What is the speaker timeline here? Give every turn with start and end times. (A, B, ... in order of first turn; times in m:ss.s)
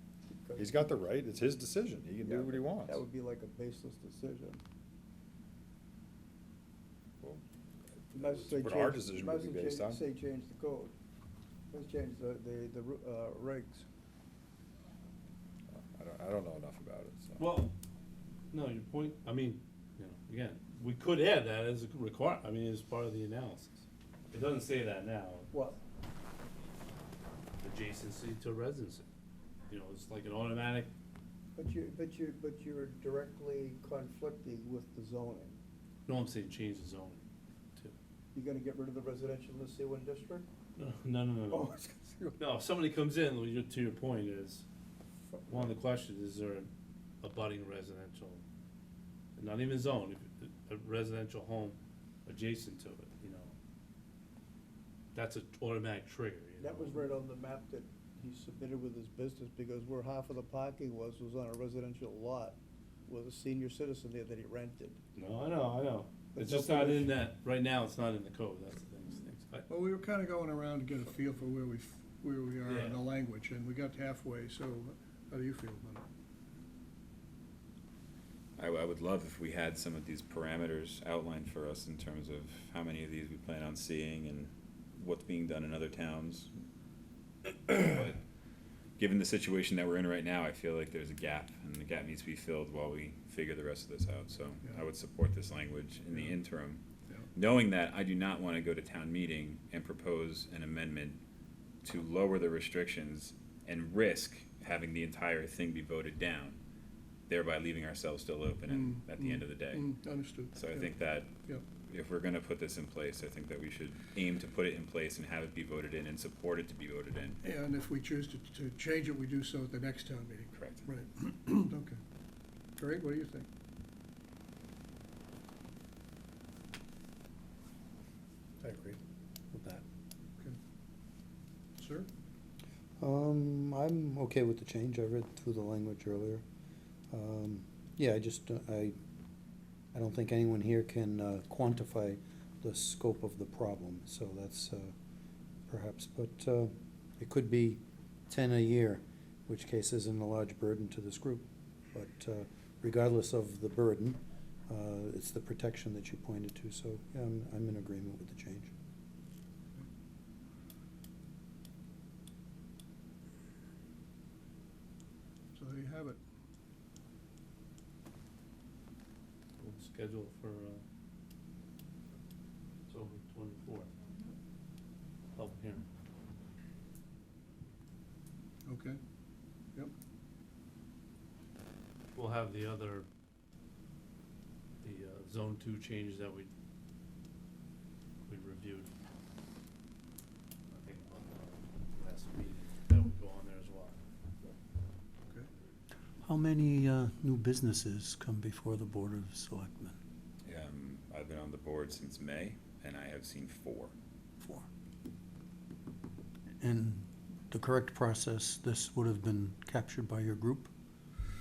0:00.3-0:00.9 A
0:00.6-0:03.0 B
0:02.2-0:04.6 A
0:08.1-0:10.9 A
0:08.1-0:10.0 B
0:11.7-0:13.8 A
0:15.7-0:17.4 B
0:17.4-0:17.7 C
0:18.5-0:25.5 C
0:25.5-0:25.8 A
0:27.6-0:29.1 C
0:29.7-0:30.9 C
0:31.5-0:35.6 A
0:36.1-0:37.2 C
0:38.3-0:40.5 A
0:40.8-0:41.7 C
0:41.5-0:42.4 A
0:42.4-0:44.6 C
0:45.3-0:45.7 A
0:45.5-0:48.4 C
0:49.4-0:53.5 C
0:55.1-0:57.0 C
0:56.6-1:05.0 A
1:05.1-1:09.7 C
1:06.3-1:07.1 A
1:09.7-1:16.0 D
1:12.6-1:13.0 C
1:18.6-1:26.5 E
1:27.4-1:28.2 E
1:29.0-1:36.8 E
1:37.3-1:41.2 E
1:41.8-1:46.6 E
1:47.3-1:49.9 E
1:48.7-1:50.8 D
1:50.5-1:51.3 E
1:51.9-1:57.4 E
1:57.4-2:02.0 D
2:00.5-2:00.8 E
2:02.8-2:03.5 D
2:08.6-2:09.0 D
2:09.6-2:09.8 C
2:11.8-2:12.1 D
2:13.0-2:16.4 F
2:17.1-2:19.0 F
2:19.9-2:24.9 F
2:25.7-2:38.7 F
2:45.5-2:46.2 D
2:49.6-2:50.8 C
2:52.9-2:53.9 C
2:55.4-2:55.8 C
2:58.6-2:59.0 D
3:02.1-3:03.1 C
3:04.8-3:06.5 C
3:08.2-3:08.9 C
3:10.7-3:14.0 C
3:16.2-3:20.0 F
3:20.4-3:23.9 E
3:24.4-3:24.7 F
3:26.6-3:30.7 F